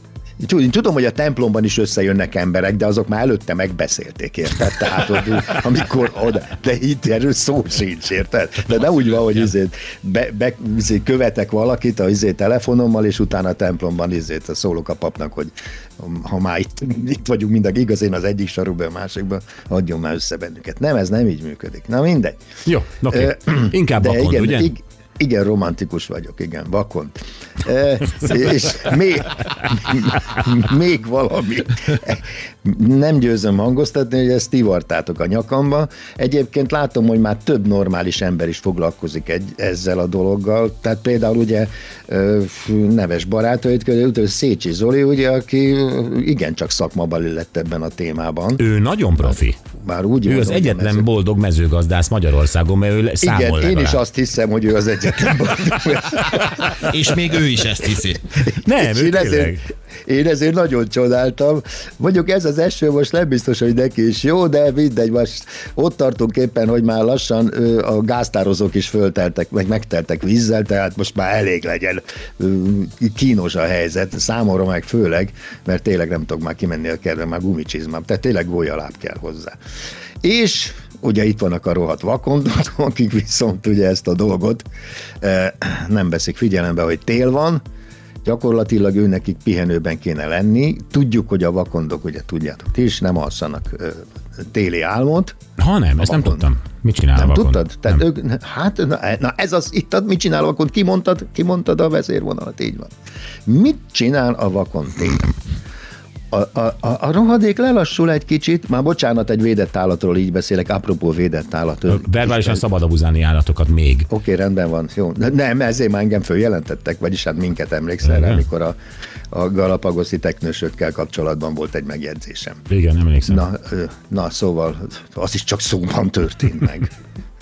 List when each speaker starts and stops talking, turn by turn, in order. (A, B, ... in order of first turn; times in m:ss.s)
0:00.4-0:22.4 A
0:08.7-0:09.5 B
0:22.6-0:24.7 C
0:23.1-0:48.6 A
0:48.6-0:49.6 C
0:49.2-0:51.1 A
0:50.2-0:54.0 C
0:53.2-0:57.0 A
0:56.8-0:58.2 B
0:58.4-1:19.6 A
0:58.6-0:59.6 C
1:20.2-1:24.6 A
1:25.2-1:27.6 A
1:28.2-1:35.4 A
1:35.6-1:38.0 C
1:36.0-1:36.5 A
1:37.2-1:42.9 A
1:43.5-1:45.3 A
1:46.3-1:52.6 A
1:51.9-1:54.1 C
1:54.1-1:58.8 A
1:58.0-1:58.4 C
1:59.3-2:02.6 A
2:02.7-2:03.4 C
2:03.3-2:06.9 A